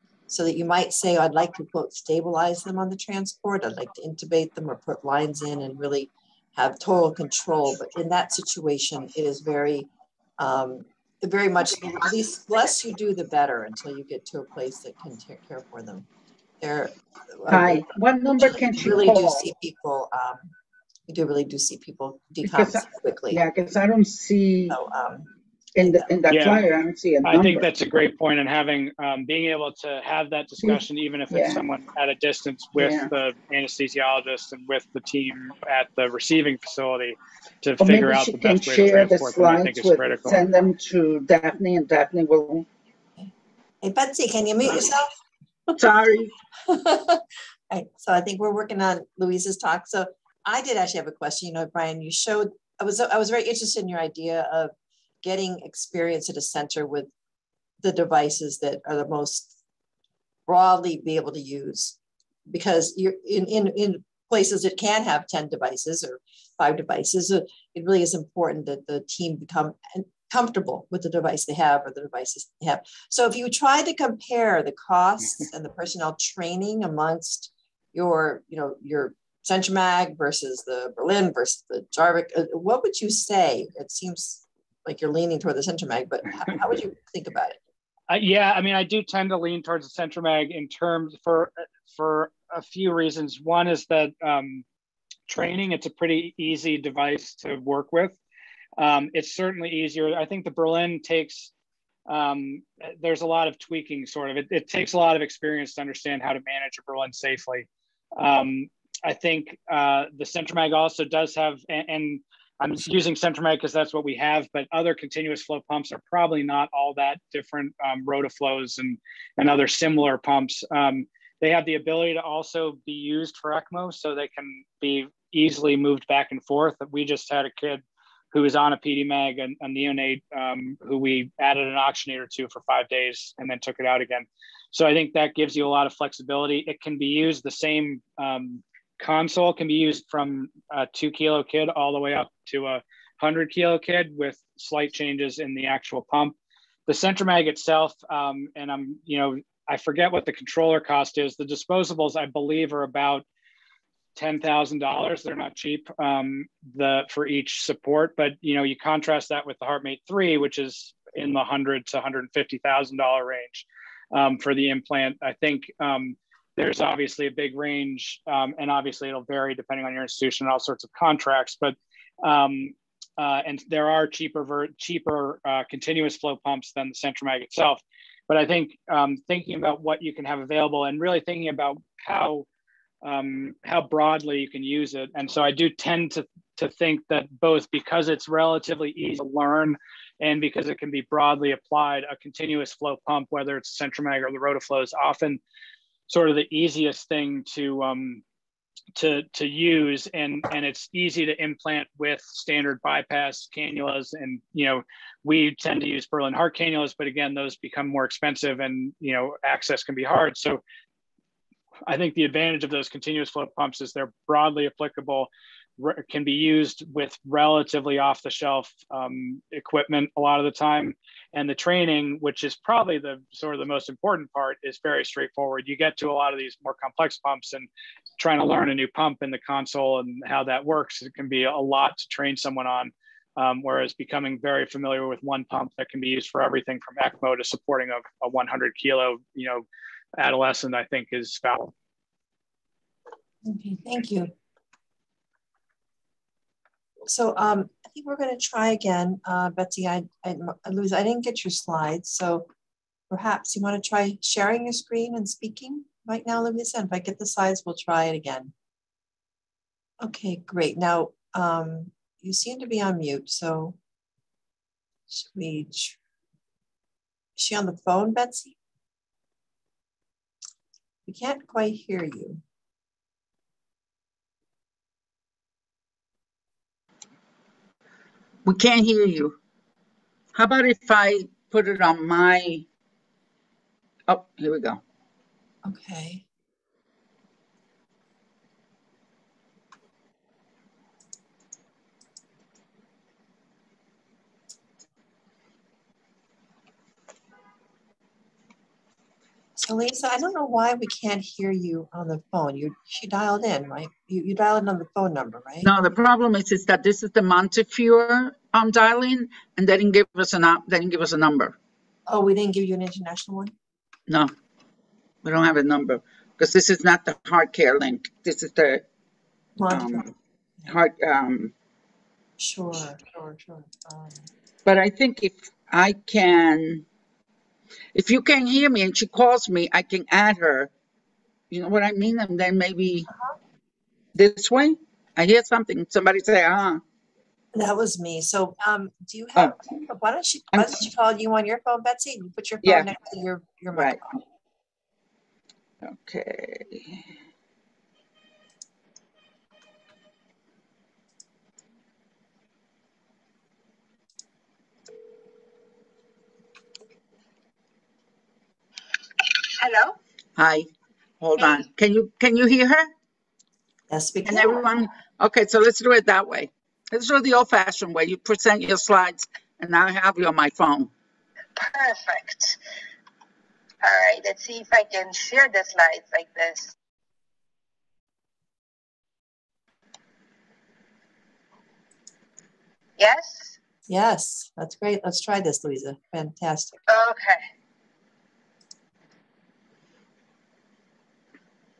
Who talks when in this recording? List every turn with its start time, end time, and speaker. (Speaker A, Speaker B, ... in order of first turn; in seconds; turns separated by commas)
Speaker A: 0.3-16.1, Speaker A: 16.6-20.5, Speaker B: 17.5-19.4, Speaker A: 21.1-23.4, Speaker B: 22.4-24.8, Speaker A: 24.7-26.1, Speaker B: 25.8-27.7, Speaker C: 26.3-26.6, Speaker C: 27.2-40.4, Speaker B: 30.6-31.6, Speaker B: 32.7-33.1, Speaker B: 37.8-42.7, Speaker A: 43.8-45.1, Speaker B: 45.8-46.3, Speaker A: 46.6-57.1, Speaker A: 57.8-59.5, Speaker A: 60.5-62.0, Speaker A: 62.5-87.6, Speaker C: 88.1-94.6, Speaker C: 95.3-98.2, Speaker C: 98.8-101.5, Speaker C: 102.1-153.2, Speaker C: 154.1-182.4, Speaker C: 183.0-195.4, Speaker C: 196.1-198.2, Speaker C: 198.9-210.6, Speaker C: 211.9-239.6, Speaker C: 240.2-241.7, Speaker A: 243.4-244.3, Speaker A: 247.0-252.5, Speaker A: 253.1-258.5, Speaker A: 260.0-263.8, Speaker A: 265.1-266.0, Speaker A: 267.4-268.6, Speaker A: 271.1-272.4, Speaker B: 278.4-279.4, Speaker B: 280.3-282.6, Speaker B: 284.1-284.8, Speaker A: 285.6-286.2, Speaker A: 299.6-305.7, Speaker B: 305.6-311.6, Speaker A: 312.1-313.5, Speaker B: 315.2-318.8, Speaker A: 319.6-320.1, Speaker B: 319.7-320.1, Speaker B: 320.7-321.5, Speaker A: 322.4-324.3, Speaker B: 324.6-326.8, Speaker B: 327.9-330.7, Speaker B: 331.5-333.1, Speaker A: 333.1-333.4, Speaker B: 334.1-336.8, Speaker A: 337.5-344.2, Speaker B: 340.5-340.8, Speaker B: 342.6-342.9, Speaker B: 343.7-344.0, Speaker B: 345.8-347.0, Speaker D: 359.4-360.0, Speaker B: 360.4-360.7, Speaker B: 361.2-362.9, Speaker D: 361.4-361.6, Speaker A: 363.9-364.6, Speaker B: 364.2-370.9, Speaker D: 371.6-372.6, Speaker D: 373.8-376.7, Speaker D: 383.0-383.6, Speaker A: 383.9-386.8, Speaker D: 386.9-387.4